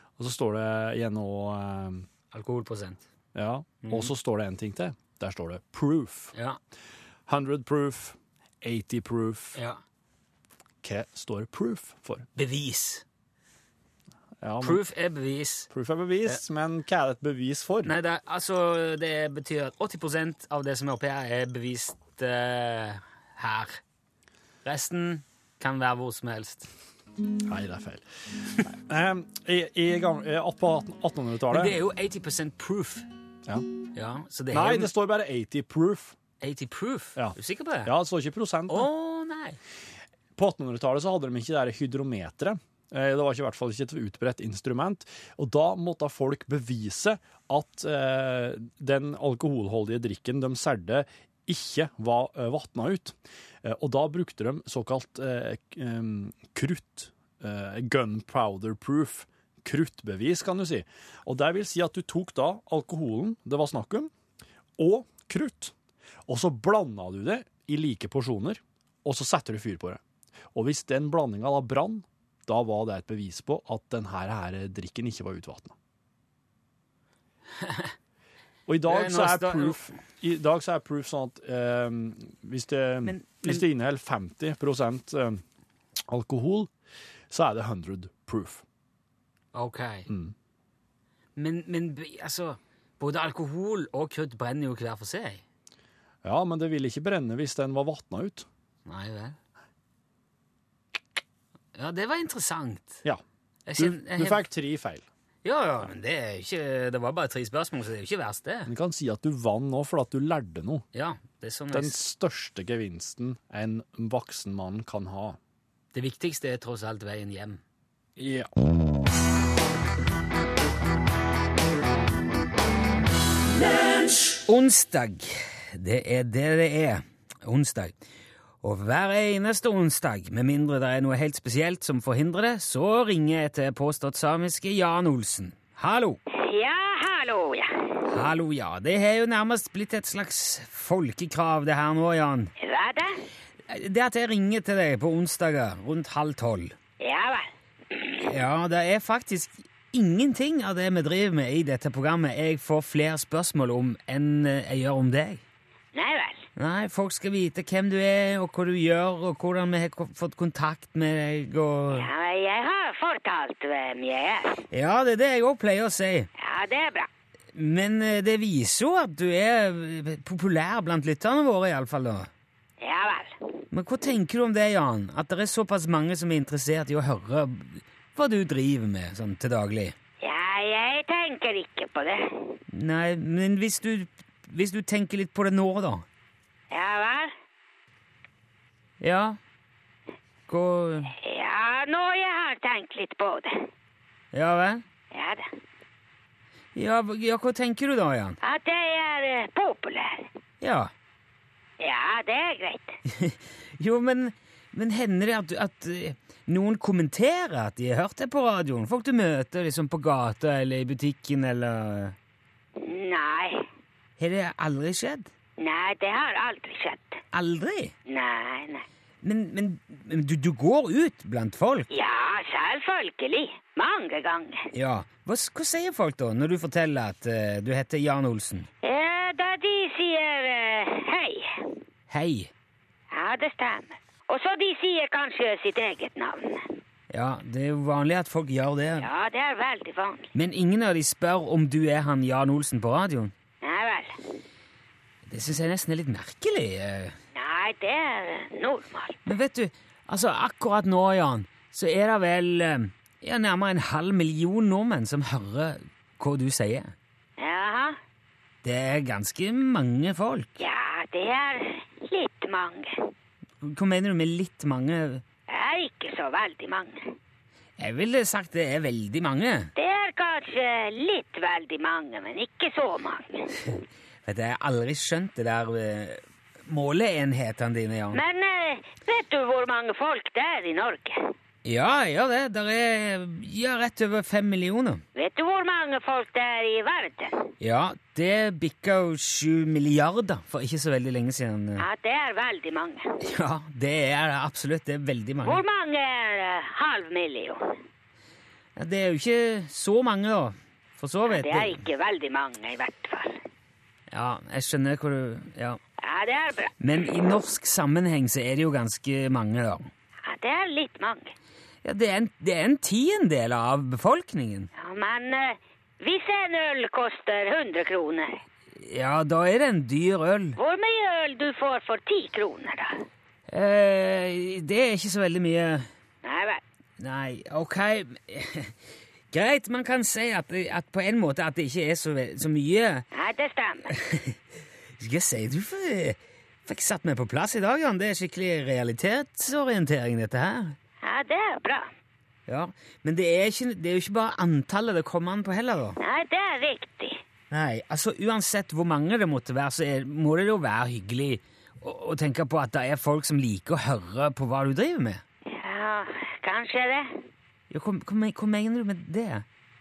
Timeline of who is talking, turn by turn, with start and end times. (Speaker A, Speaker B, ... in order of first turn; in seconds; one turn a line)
Speaker A: 0.2-2.1
Speaker B: 2.3-3.0
Speaker A: 3.4-6.3
Speaker B: 3.8-4.1
Speaker B: 6.3-6.6
Speaker A: 7.3-9.6
Speaker B: 9.6-9.8
Speaker A: 10.8-12.3
Speaker B: 12.4-13.1
Speaker A: 14.4-14.8
Speaker B: 14.6-15.7
Speaker A: 15.7-17.9
Speaker B: 17.8-23.8
Speaker B: 24.6-26.7
Speaker A: 27.4-31.8
Speaker B: 31.5-33.1
Speaker B: 34.0-34.9
Speaker A: 34.5-36.2
Speaker B: 36.4-37.9
Speaker A: 37.2-38.9
Speaker B: 38.7-39.6
Speaker A: 40.4-64.1
Speaker A: 64.8-65.7
Speaker A: 66.3-70.0
Speaker A: 70.5-75.8
Speaker B: 77.6-77.9
Speaker A: 78.7-85.4
Speaker B: 78.9-79.8
Speaker B: 83.0-83.7
Speaker A: 86.1-86.7
Speaker A: 87.3-88.6
Speaker B: 89.5-90.1
Speaker A: 90.1-90.3
Speaker B: 91.4-95.4
Speaker A: 96.2-98.5
Speaker B: 98.9-99.4
Speaker B: 101.8-103.0
Speaker B: 103.7-104.5
Speaker A: 103.8-105.1
Speaker B: 105.4-108.7
Speaker A: 108.7-110.8
Speaker B: 110.9-112.0
Speaker A: 111.7-115.4
Speaker B: 115.9-117.6
Speaker A: 118.2-118.5
Speaker B: 124.5-128.0
Speaker B: 128.6-136.2
Speaker C: 136.3-138.0
Speaker B: 138.1-142.5
Speaker C: 142.6-143.2
Speaker B: 143.7-146.8
Speaker C: 147.0-148.2
Speaker B: 148.2-155.4
Speaker C: 155.9-156.5
Speaker B: 156.6-162.1
Speaker C: 161.9-164.6
Speaker B: 164.7-166.3
Speaker C: 166.4-167.1
Speaker B: 167.5-172.3
Speaker C: 172.8-173.4
Speaker B: 173.7-179.9
Speaker C: 180.2-182.6
Speaker B: 182.7-186.1
Speaker C: 186.7-187.3
Speaker B: 189.0-189.4
Speaker B: 190.5-191.1
Speaker C: 191.1-193.7
Speaker B: 194.3-194.8
Speaker C: 195.1-195.5
Speaker B: 196.8-198.4
Speaker C: 198.4-200.3
Speaker B: 200.6-200.9
Speaker C: 201.8-203.0
Speaker B: 203.1-212.2
Speaker C: 212.8-213.7
Speaker B: 214.2-215.3
Speaker C: 215.6-217.2
Speaker B: 217.3-217.9
Speaker C: 218.1-218.8
Speaker B: 219.2-221.9
Speaker C: 221.9-224.7
Speaker B: 224.7-228.7
Speaker C: 228.8-231.7
Speaker B: 232.1-232.5
Speaker C: 233.1-236.7
Speaker B: 237.1-239.1
Speaker C: 239.0-240.3
Speaker B: 240.3-243.3
Speaker C: 243.6-244.2
Speaker B: 245.3-247.2
Speaker C: 247.3-249.2
Speaker B: 249.3-256.9
Speaker C: 257.4-258.0
Speaker B: 258.6-260.6
Speaker C: 260.6-263.1
Speaker B: 263.6-265.2
Speaker C: 265.5-267.1
Speaker B: 267.8-269.7
Speaker C: 269.8-273.5
Speaker B: 274.3-278.2
Speaker C: 278.1-281.3
Speaker B: 281.6-285.0
Speaker C: 285.2-287.5
Speaker B: 287.6-291.8
Speaker C: 291.8-293.1
Speaker B: 293.2-295.6
Speaker C: 295.4-297.8
Speaker B: 298.8-301.8
Speaker C: 301.3-303.4
Speaker B: 304.1-305.8
Speaker C: 306.0-306.8
Speaker B: 306.8-309.9
Speaker C: 310.2-311.3
Speaker B: 311.8-314.7
Speaker C: 314.8-318.4
Speaker B: 318.8-320.6
Speaker C: 320.6-323.1
Speaker B: 323.5-325.9
Speaker C: 326.2-326.6
Speaker B: 327.0-328.7
Speaker B: 329.3-333.1
Speaker C: 333.1-333.9
Speaker B: 333.9-334.4
Speaker B: 335.0-340.8
Speaker C: 341.0-341.9
Speaker B: 342.5-346.0
Speaker C: 346.0-347.2
Speaker B: 347.5-355.2
Speaker C: 355.5-357.1
Speaker B: 357.7-359.4